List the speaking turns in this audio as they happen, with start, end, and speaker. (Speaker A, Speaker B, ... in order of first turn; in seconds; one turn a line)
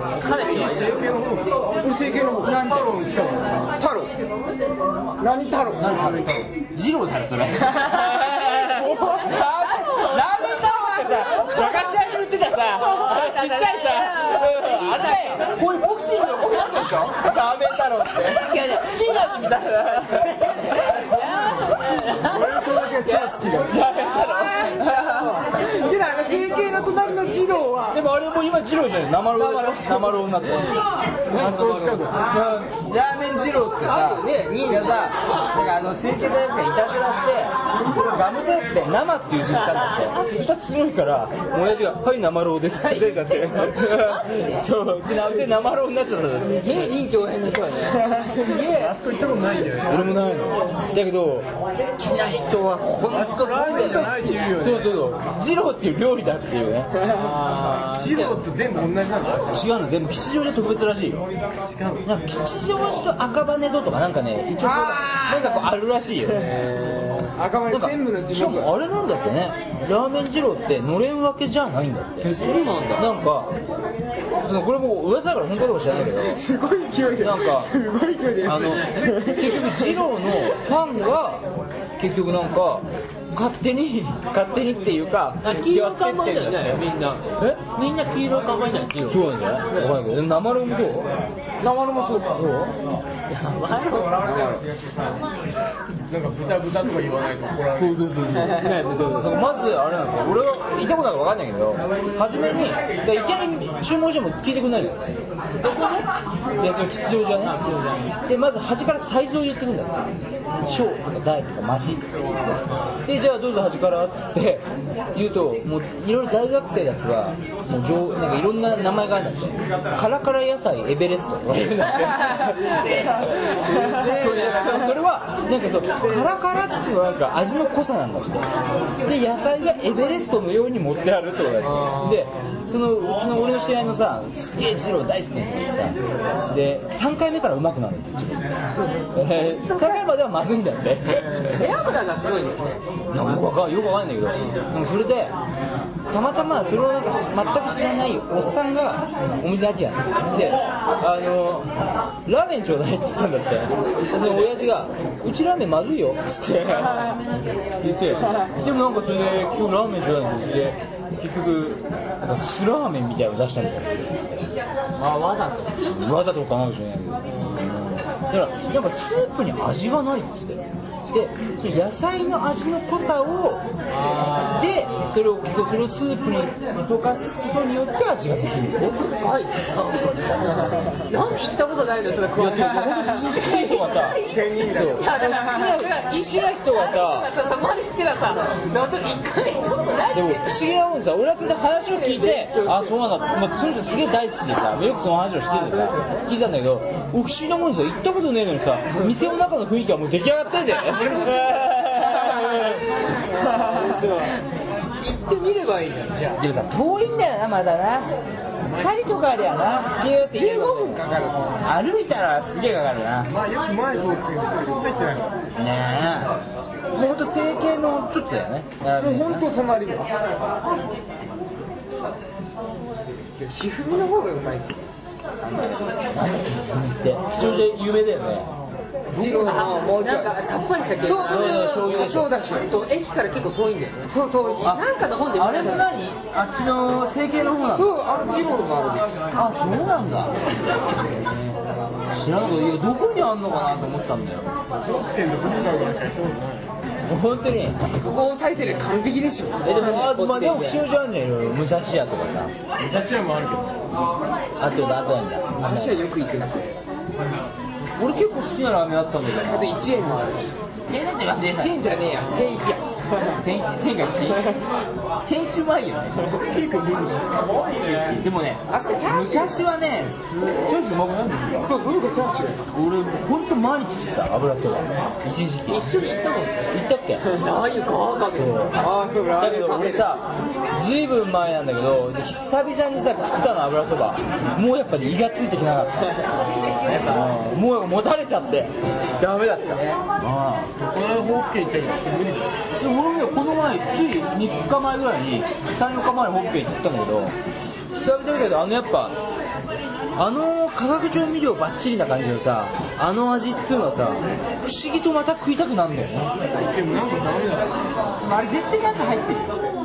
Speaker A: 0.2-1.1
Speaker B: 0.5-3.7
Speaker C: 1.8-2.7
Speaker D: 2.4-2.9
Speaker C: 3.8-4.1
Speaker C: 5.2-6.3
Speaker D: 5.8-21.6
Speaker B: 6.0-6.3
Speaker C: 7.7-9.9
Speaker A: 9.1-12.0
Speaker A: 12.8-15.5
Speaker A: 16.4-16.9
Speaker A: 18.3-18.9
Speaker A: 20.1-23.4
Speaker B: 21.3-23.8
Speaker D: 23.6-25.4
Speaker C: 24.1-28.0
Speaker D: 27.9-30.8
Speaker C: 29.4-30.1
Speaker A: 31.3-32.1
Speaker B: 31.3-32.2
Speaker D: 32.1-47.0
Speaker A: 33.8-35.1
Speaker A: 42.8-44.6
Speaker A: 46.6-49.0
Speaker B: 48.3-50.3
Speaker D: 49.9-56.9
Speaker B: 53.0-55.0
Speaker A: 54.1-54.5
Speaker C: 54.2-54.6
Speaker A: 57.0-58.4
Speaker B: 57.8-59.7
Speaker D: 59.5-61.3
Speaker B: 61.6-62.1
Speaker D: 62.0-66.5
Speaker C: 64.6-65.7
Speaker A: 66.5-67.3
Speaker C: 67.3-68.7
Speaker D: 67.7-72.3
Speaker A: 72.2-73.1
Speaker D: 73.0-73.5
Speaker D: 74.4-76.4
Speaker C: 76.1-80.0
Speaker D: 77.2-77.7
Speaker D: 78.4-81.4
Speaker D: 82.0-86.9
Speaker A: 85.4-89.9
Speaker D: 89.0-91.1
Speaker C: 91.6-92.4
Speaker D: 92.3-92.7
Speaker A: 93.3-94.1
Speaker C: 94.2-94.7
Speaker B: 96.1-98.0
Speaker D: 97.7-106.1
Speaker A: 98.4-99.2
Speaker D: 106.6-107.6
Speaker A: 107.4-108.2
Speaker D: 108.3-110.1
Speaker D: 110.6-112.0
Speaker D: 113.0-128.5
Speaker A: 122.3-124.9
Speaker A: 126.0-126.3
Speaker D: 129.0-135.9
Speaker A: 131.7-132.1
Speaker D: 136.5-138.4
Speaker D: 139.1-141.7
Speaker A: 139.3-140.0
Speaker A: 141.3-142.8
Speaker D: 143.1-145.3
Speaker D: 146.1-151.7
Speaker D: 152.2-157.2
Speaker D: 157.8-164.5
Speaker A: 165.0-165.7
Speaker D: 165.8-173.6
Speaker A: 173.9-174.7
Speaker D: 174.2-179.0
Speaker A: 178.8-190.5
Speaker D: 180.4-180.8
Speaker D: 182.3-187.3
Speaker C: 184.2-185.1
Speaker D: 190.1-202.8
Speaker A: 191.9-192.9
Speaker A: 195.5-196.3
Speaker A: 201.1-201.4
Speaker A: 202.2-202.6
Speaker A: 203.4-204.3
Speaker A: 205.0-206.4
Speaker D: 206.4-208.1
Speaker B: 208.6-209.3
Speaker D: 208.7-211.0
Speaker C: 210.1-211.6
Speaker D: 211.6-213.3
Speaker B: 213.3-215.4
Speaker D: 215.6-216.3
Speaker D: 216.9-219.5
Speaker C: 219.0-220.1
Speaker C: 223.4-224.8
Speaker C: 225.4-225.9
Speaker D: 226.1-228.5
Speaker C: 229.1-230.4
Speaker A: 229.2-232.0
Speaker D: 229.2-229.6
Speaker C: 231.0-232.7
Speaker D: 231.1-232.3
Speaker A: 232.6-236.0
Speaker C: 234.1-234.8
Speaker D: 234.6-237.9
Speaker C: 237.7-239.2
Speaker D: 239.3-240.3
Speaker D: 242.1-244.5
Speaker B: 244.8-246.7
Speaker D: 247.1-247.8
Speaker C: 247.9-250.1
Speaker D: 249.6-252.5
Speaker A: 249.7-250.8
Speaker B: 252.8-253.8
Speaker D: 254.6-256.1
Speaker C: 255.6-256.8
Speaker D: 258.0-259.8
Speaker C: 259.5-260.5
Speaker D: 260.9-261.8
Speaker C: 261.5-263.4
Speaker D: 263.4-264.6
Speaker D: 265.2-266.2
Speaker B: 266.4-268.0
Speaker D: 268.1-271.7
Speaker C: 268.7-269.6
Speaker C: 271.6-272.6
Speaker D: 272.7-276.0
Speaker A: 275.7-278.7
Speaker D: 276.7-277.2
Speaker D: 278.3-286.2
Speaker C: 278.8-280.2
Speaker D: 286.9-290.7
Speaker B: 290.8-292.5
Speaker D: 292.8-297.4
Speaker D: 297.9-299.1
Speaker D: 300.1-306.3
Speaker B: 306.6-307.8
Speaker D: 308.2-309.6